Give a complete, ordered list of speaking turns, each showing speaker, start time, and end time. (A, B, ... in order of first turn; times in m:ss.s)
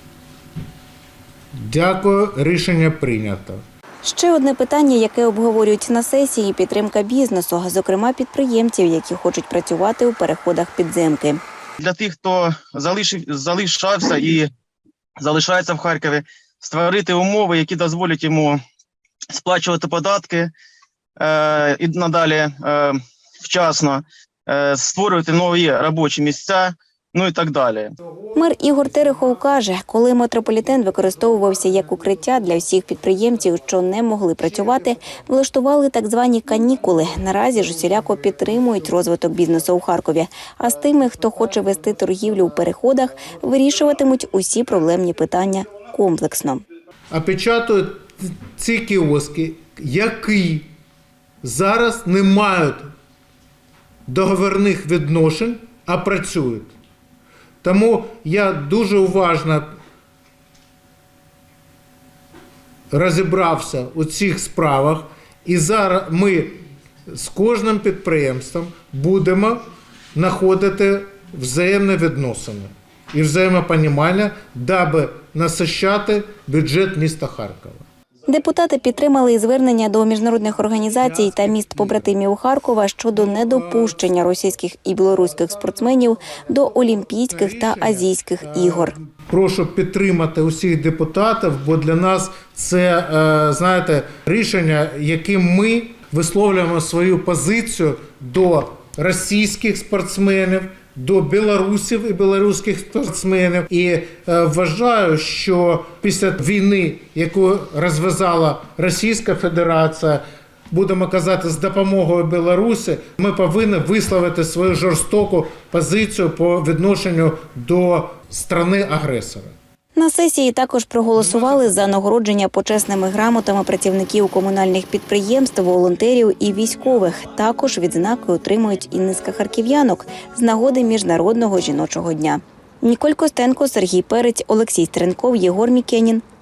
0:01.6-0:03.6 A
0:04.0-0:11.4 B
0:11.8-0:14.5 C
0:15.2-0:18.6 C
0:19.3-0:20.5 C
0:21.2-0:27.9 C
0:28.3-0:46.6 B
0:47.1-0:50.7 A
0:51.4-0:52.9 A
0:54.1-0:56.7 A
0:57.6-0:59.8 A
1:02.9-1:17.9 A
1:18.2-1:28.9 B
1:27.3-1:59.5 A
2:00.0-2:16.2 B